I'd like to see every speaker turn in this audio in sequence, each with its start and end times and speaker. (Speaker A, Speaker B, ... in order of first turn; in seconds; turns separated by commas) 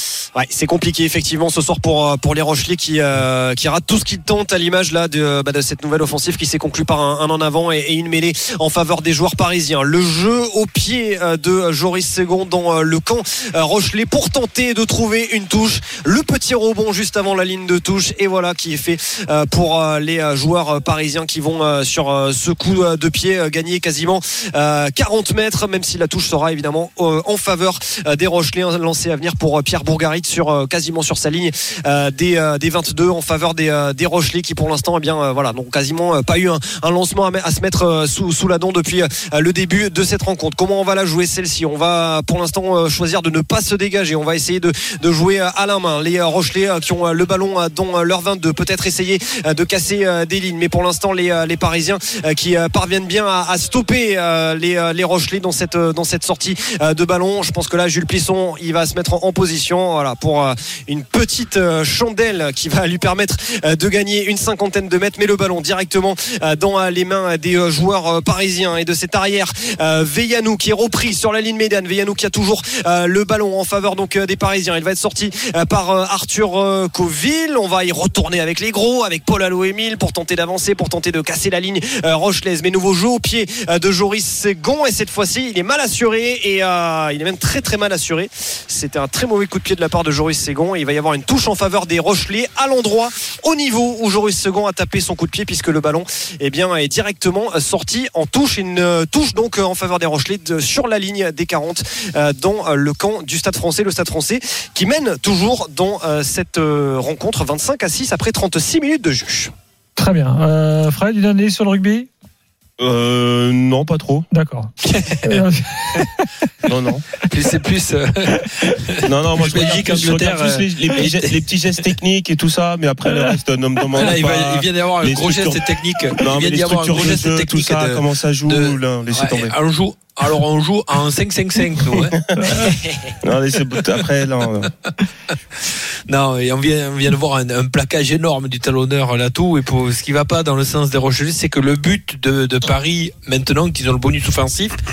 Speaker A: 0.3-109.5, Speaker B: 110.0-112.1, Speaker C: 112.8-114.3, Speaker B: 114.3-116.3, Speaker D: 114.9-115.4, Speaker C: 116.7-117.0, Speaker D: 117.3-121.4, Speaker C: 119.0-129.5, Speaker D: 124.0-132.8, Speaker C: 131.9-134.7, Speaker B: 132.4-132.7, Speaker D: 136.1-144.8